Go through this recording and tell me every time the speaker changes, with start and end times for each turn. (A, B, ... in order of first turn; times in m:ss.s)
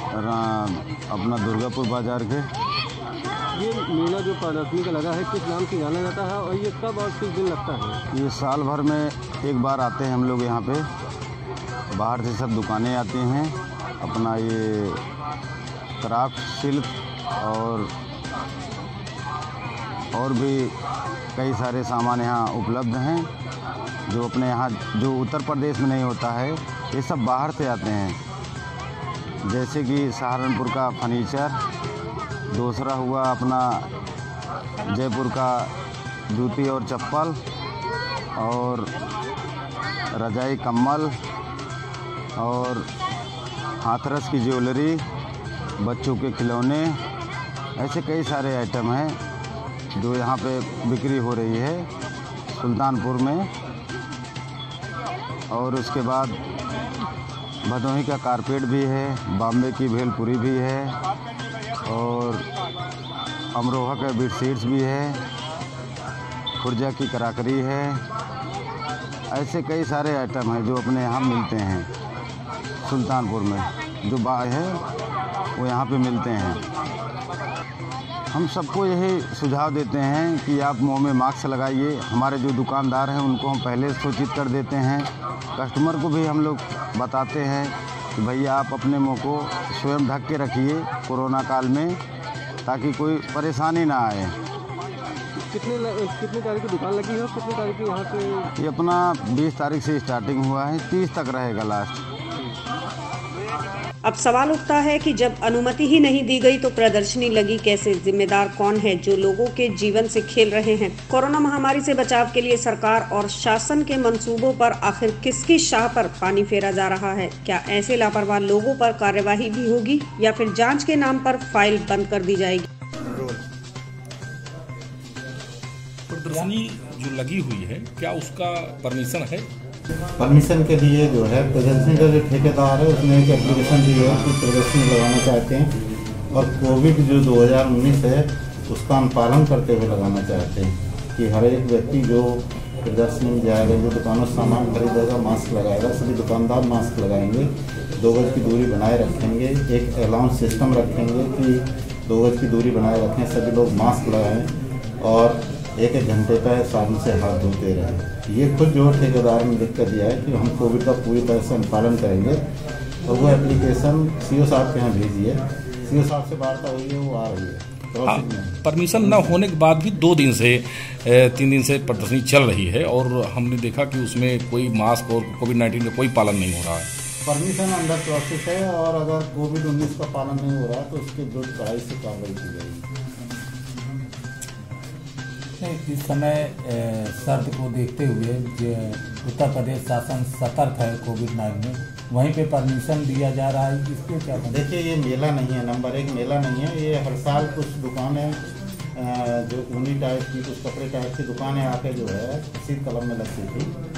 0:00.1-0:02.5 A
0:03.6-0:08.0 B
0:08.1-0:10.9 A
0:11.9-0:15.0 A
0:16.0-0:17.9 A
0:20.1-0:20.8 A
0:21.3-0:23.3 A
0:24.1-0:28.2 A
0:29.4-0:31.6 A
0:32.5-0:33.9 A
0:34.9-0:35.7 A
0:36.3-0:37.4 A
0:38.4-0:38.9 A
0:40.1-0:41.1 A
0:42.4-0:42.9 A
0:43.8-0:45.0 A
0:45.8-0:47.0 A
0:47.8-0:49.2 A
0:50.0-0:51.9 A
0:52.5-0:53.5 A
0:55.5-0:56.4 A
0:57.6-1:01.0 A
1:01.8-1:02.4 A
1:03.5-1:05.2 A
1:06.6-1:08.0 A
1:09.3-1:11.9 A
1:12.8-1:14.8 A
1:15.6-1:16.6 A
1:18.3-1:32.0 A
1:32.6-1:34.4 A
1:35.4-1:38.5 B
1:38.6-1:42.0 A
1:44.0-2:02.7 C
2:06.1-2:09.5 D
2:10.2-2:15.7 E
2:16.3-2:42.4 E
2:43.0-2:48.6 E
2:48.0-2:56.9 D
2:57.2-3:02.8 E
3:05.6-3:14.6 F
3:14.5-3:18.4 E
3:18.9-3:23.8 E